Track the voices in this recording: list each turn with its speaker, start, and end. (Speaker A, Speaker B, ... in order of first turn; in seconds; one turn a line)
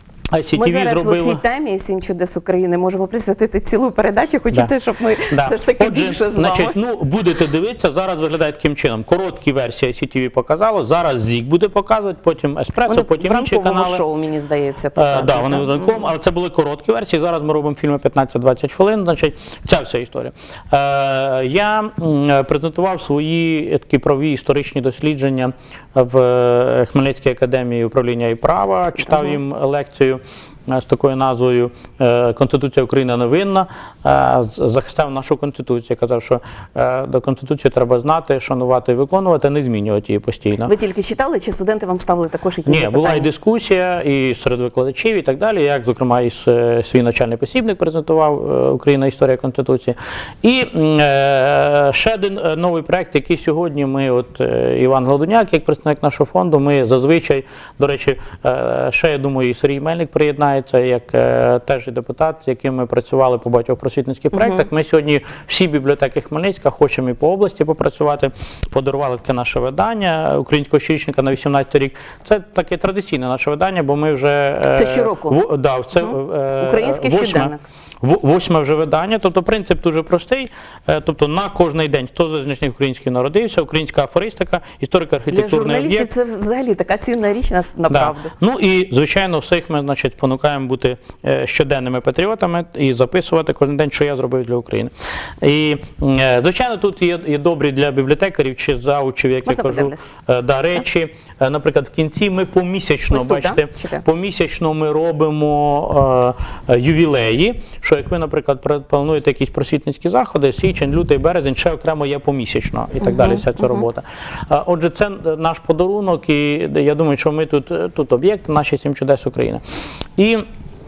Speaker A: 0.3-1.4
Speaker B: 0.6-6.8
Speaker A: 5.3-14.0
Speaker B: 12.9-16.1
Speaker A: 15.0-40.7
Speaker B: 29.1-29.3
Speaker B: 40.7-43.3
Speaker A: 42.7-86.1
Speaker B: 74.7-75.4
Speaker B: 76.0-77.6
Speaker B: 85.3-88.3
Speaker A: 87.9-119.6
Speaker B: 99.5-100.1
Speaker B: 103.1-104.0
Speaker A: 120.2-120.5